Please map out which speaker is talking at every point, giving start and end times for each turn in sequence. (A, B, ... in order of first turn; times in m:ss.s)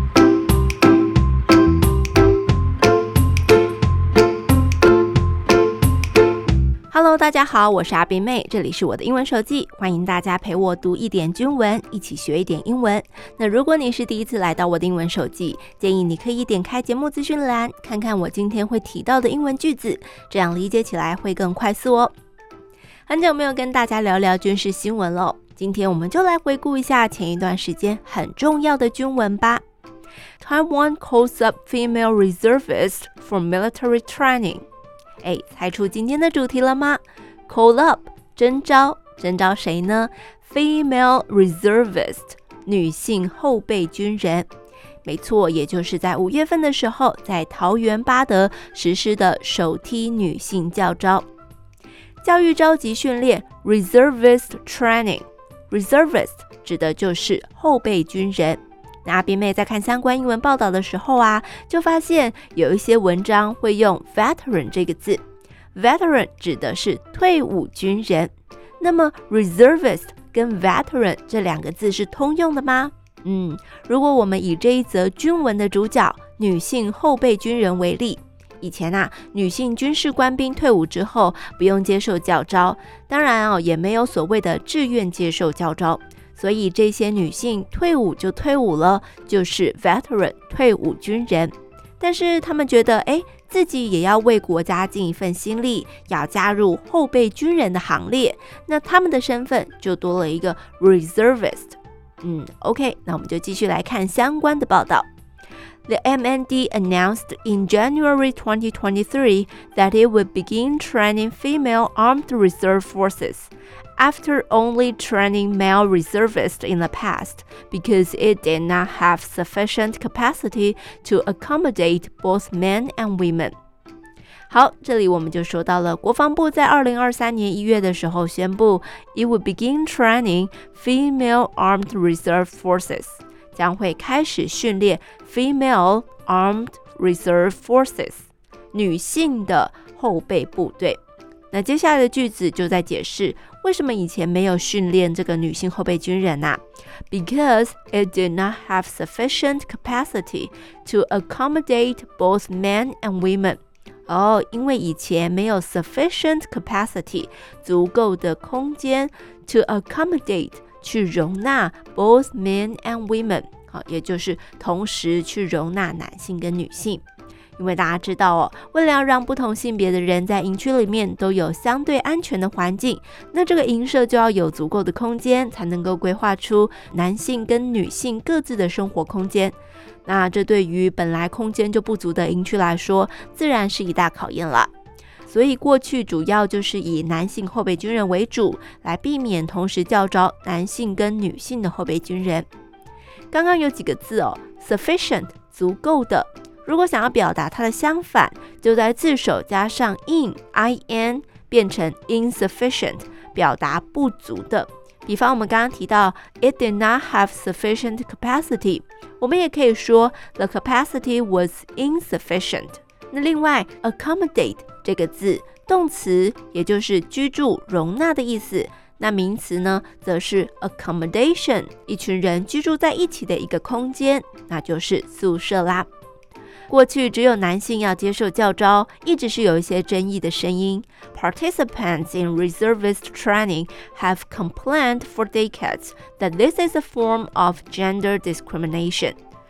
0:06.9-0:22.1 A
0:23.1-0:29.6 A
0:30.4-0:34.7 A
0:35.2-0:44.5 A
0:45.0-0:51.3 A
0:52.2-1:05.2 A
1:05.7-1:45.1 A
1:45.9-2:03.6 A
2:04.5-2:21.0 A
2:21.5-2:47.0 A
2:47.6-3:04.7 A
3:05.3-3:12.5 A
3:13.3-3:45.9 A
3:46.7-3:59.2 A